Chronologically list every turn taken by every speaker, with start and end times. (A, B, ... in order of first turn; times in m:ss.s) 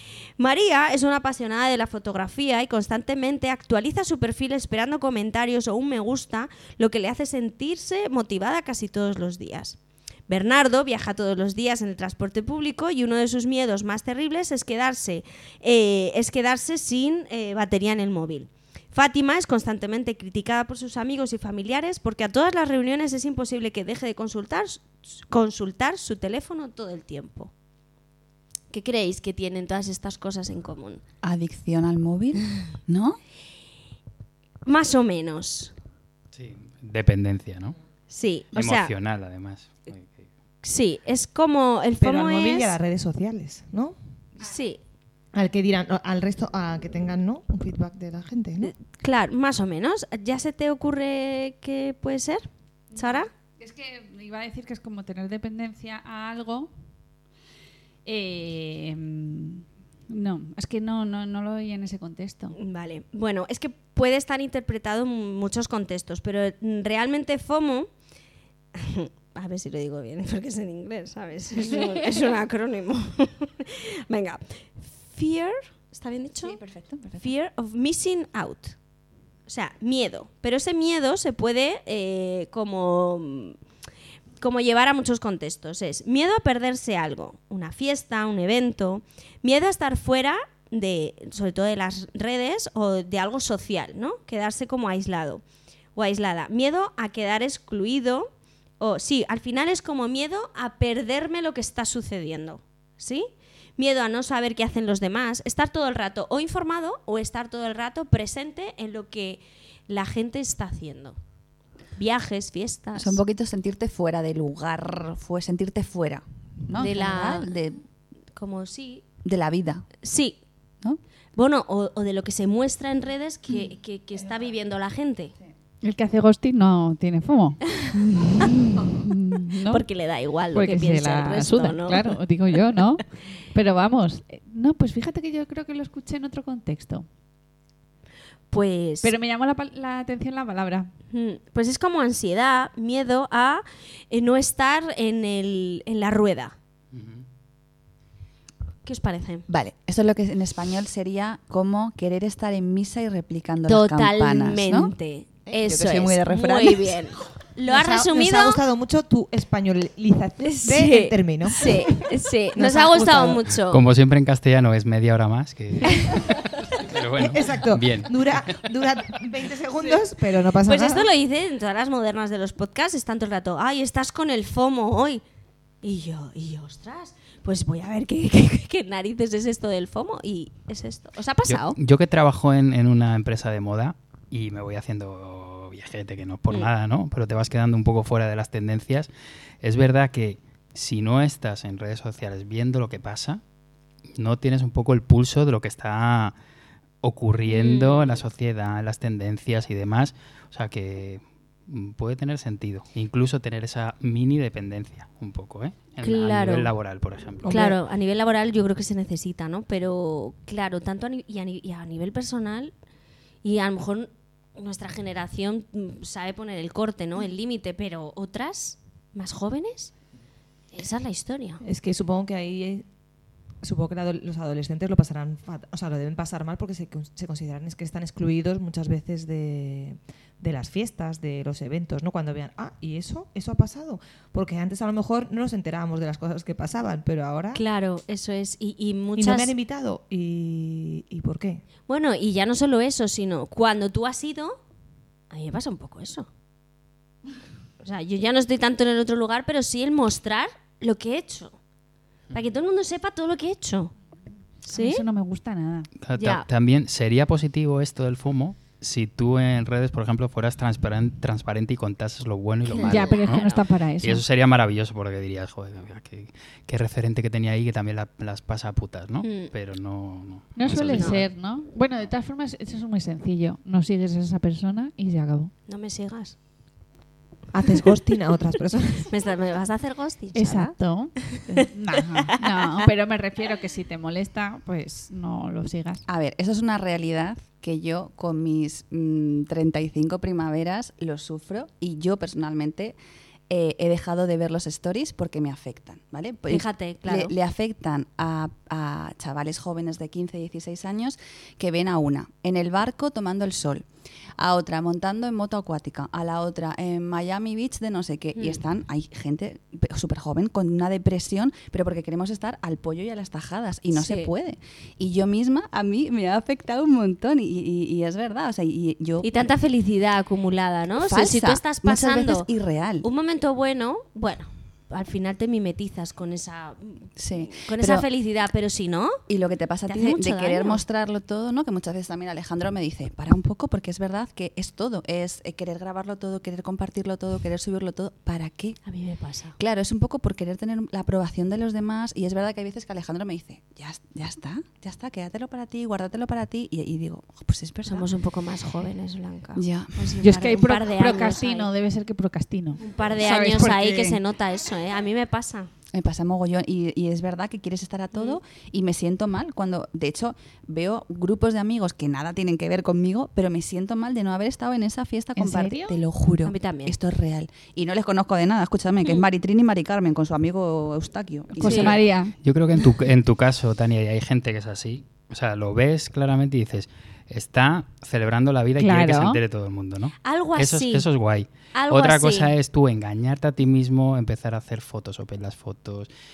0:00.4-0:27.5 A
0:28.7-0:31.0 A
0:31.2-0:33.2 B
0:34.6-0:35.7 A
0:36.3-0:37.8 C
0:38.1-0:38.9 A
0:38.5-0:40.2 C
0:40.6-0:42.8 A
0:42.0-0:44.0 D
0:44.4-0:44.8 A
0:45.3-0:48.7 D
0:48.6-0:53.3 A
0:53.0-0:56.7 E
0:58.0-1:02.6 E
1:02.6-1:07.9 A
1:08.7-1:16.6 A
1:16.4-1:17.3 B
1:17.2-1:18.8 A
1:19.5-1:23.6 A
1:24.4-1:35.4 A
1:36.0-1:51.2 A
1:52.0-1:53.2 A
1:53.0-1:57.8 B
1:56.8-1:57.5 A
1:58.4-1:59.0 A
1:59.2-1:59.9 B
2:00.0-2:00.4 A
2:01.4-2:05.3 A
2:05.8-2:09.8 E
2:09.7-2:12.2 A
2:10.5-2:17.1 E
2:18.5-2:19.1 A
2:19.0-2:20.9 E
2:21.1-2:26.6 A
2:26.9-2:27.2 C
2:28.8-2:29.5 A
2:29.5-2:34.9 B
2:33.7-2:38.6 A
2:35.5-2:37.0 B
2:37.6-2:43.5 D
2:40.4-2:43.8 A
2:43.7-2:48.5 C
2:45.9-2:46.2 A
2:47.2-2:51.1 D
2:50.6-2:55.2 A
2:55.8-3:01.8 A
3:01.5-3:09.1 C
3:09.6-3:13.4 C
3:14.2-3:16.4 C
3:17.0-3:27.6 C
3:17.5-3:18.2 A
3:26.0-3:26.7 A
3:27.4-3:32.7 A
3:27.5-3:27.8 D
3:33.4-3:39.9 A
3:40.7-3:41.6 A
3:41.6-3:42.8 D
3:43.6-3:57.6 D
3:57.5-3:59.5 A
3:59.2-4:01.6 D
4:01.9-4:04.6 A
4:05.3-4:06.3 A
4:07.8-4:11.6 A
4:12.3-4:13.9 A
4:14.6-4:15.0 A
4:14.7-4:15.9 E
4:16.0-4:31.2 C
4:16.2-4:16.5 A
4:22.7-4:23.6 A
4:22.8-4:24.2 E
4:29.2-4:29.5 A
4:30.6-4:35.5 E
4:30.9-4:31.2 A
4:35.7-4:36.4 A
4:37.5-4:39.2 D
4:39.1-4:42.8 A
4:40.3-4:46.0 E
4:46.1-4:53.0 B
4:53.5-5:03.9 B
4:56.5-4:57.3 A
5:04.4-5:19.3 B
5:08.4-5:08.6 A
5:13.9-5:14.3 A
5:19.2-5:22.5 A
5:21.0-5:23.1 B
5:23.0-5:29.2 A
5:27.2-5:28.1 B
5:29.3-5:38.8 B
5:29.9-5:30.8 A
5:38.8-5:39.6 A
5:39.6-5:48.1 B
5:47.9-5:51.7 A
5:49.6-5:50.1 B
5:50.2-5:52.8 E
5:52.8-5:55.7 A
5:53.2-5:54.2 B
5:55.9-6:12.0 B
6:05.4-6:06.0 E
6:06.4-6:07.0 A
6:11.6-6:12.4 E
6:11.6-6:12.0 A
6:12.4-6:26.1 C
6:18.8-6:19.4 E
6:20.2-6:21.1 A
6:21.7-6:22.5 A